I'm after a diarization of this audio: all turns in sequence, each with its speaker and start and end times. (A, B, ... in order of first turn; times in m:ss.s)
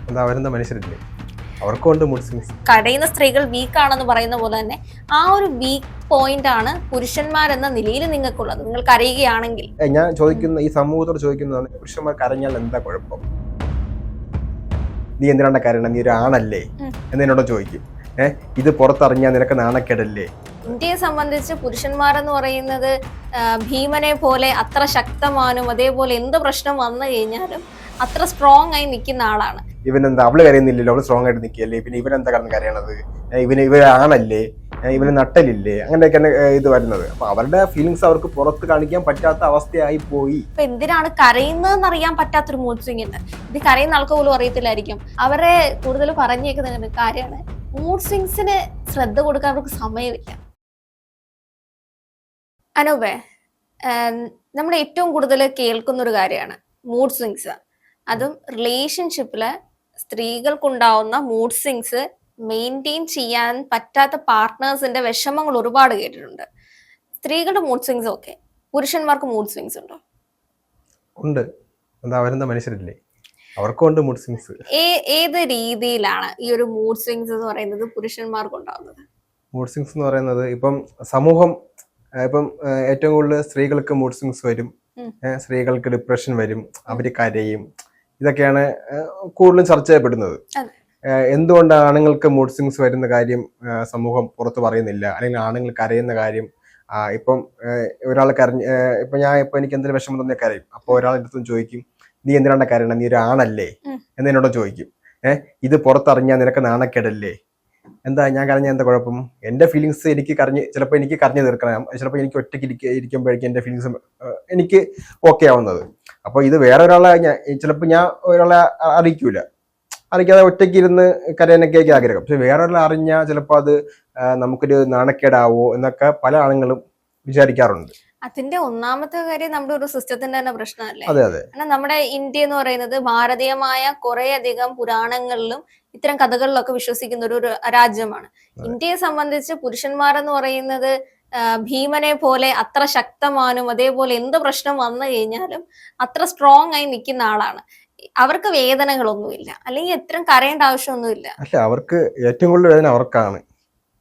0:00.1-0:01.0 A
0:01.6-0:02.6 A
0:02.7-0:09.7 B
0:09.8-0:13.2 A
0:15.2-0:20.8 A
0:20.7-0:22.9 B
0:23.4-0:29.6 B
0:29.9-0:40.4 A
0:40.6-0:50.4 B
0:52.8-0:53.2 B
0:53.9-0:57.6 B
0:58.1-0:59.5 B
1:00.0-1:06.4 B
1:07.2-1:10.0 B
1:12.0-1:13.0 A
1:13.6-1:14.6 A
1:14.7-1:19.0 B
1:19.5-1:21.6 A
1:22.2-1:24.7 A
1:25.3-1:27.6 A
1:28.2-1:30.4 A
1:31.2-1:36.5 A
1:37.0-1:47.3 A
1:48.1-1:59.4 A
2:00.1-2:03.8 A
2:04.3-2:07.9 A
2:08.3-2:20.9 B
2:11.1-2:11.5 A
2:21.4-2:27.6 B
2:28.2-2:31.4 B
2:31.4-2:33.4 A